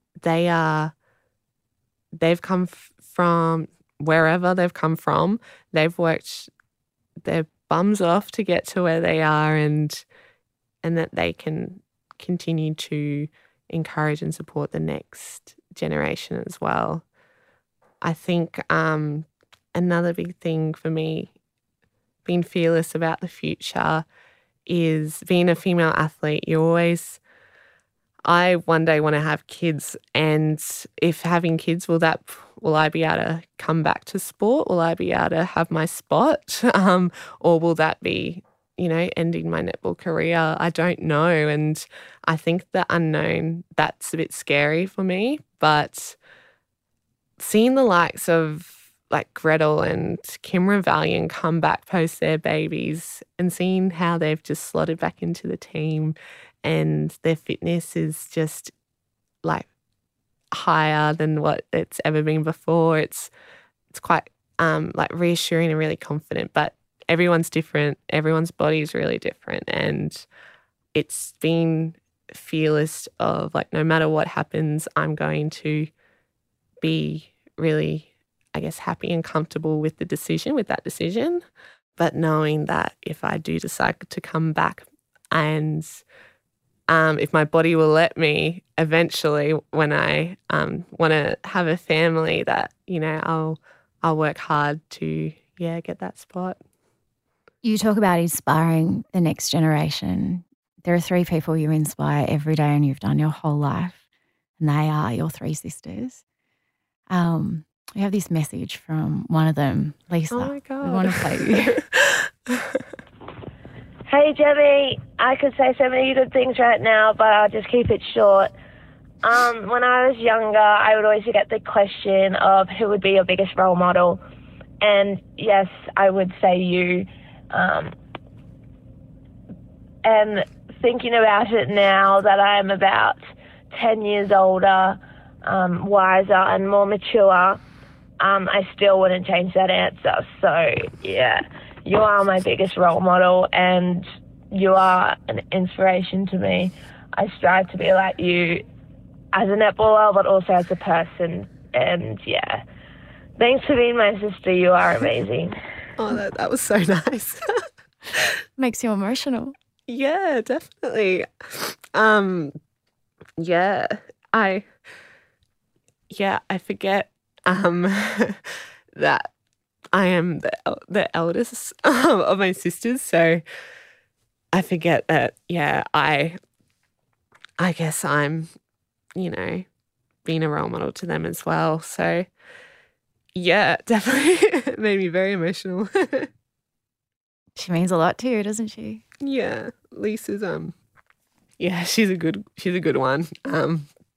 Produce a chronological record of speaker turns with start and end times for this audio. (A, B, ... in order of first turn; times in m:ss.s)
0:00.2-0:00.9 A
0:02.2-0:06.5 A
0:07.2-0:10.0 A
0:10.8-0:17.0 A
0:18.0-0:21.3 A
0:22.2-0:24.0 A
0:24.7-0:27.2 A
0:28.3-0:46.2 A
0:47.4-0:58.7 A
1:00.5-1:03.3 A
1:03.9-1:10.3 A
1:10.9-1:15.9 A
1:16.8-1:21.4 A
1:22.0-1:26.0 A
1:26.9-1:36.6 A
1:37.6-1:44.0 B
1:44.6-1:46.2 B
1:47.1-1:51.8 B
1:50.3-1:52.8 A
1:54.1-1:58.5 C
1:59.2-2:04.2 C
2:04.8-2:08.0 C
2:10.0-2:13.2 C
2:13.7-2:17.6 C
2:18.2-2:28.6 C
2:29.3-2:32.6 C
2:33.4-2:35.5 C
2:36.0-2:37.4 A
2:38.6-2:39.6 B
2:39.9-2:42.5 A
2:43.4-2:44.7 A
2:46.1-2:48.4 A
2:49.0-2:49.3 A
2:49.9-2:53.4 A
2:54.5-2:56.4 A
2:57.6-2:58.5 A
2:59.2-2:59.7 A
3:00.2-3:02.3 A
3:03.4-3:06.3 A
3:07.6-3:09.0 B
3:09.2-3:10.8 A
3:11.6-3:13.9 A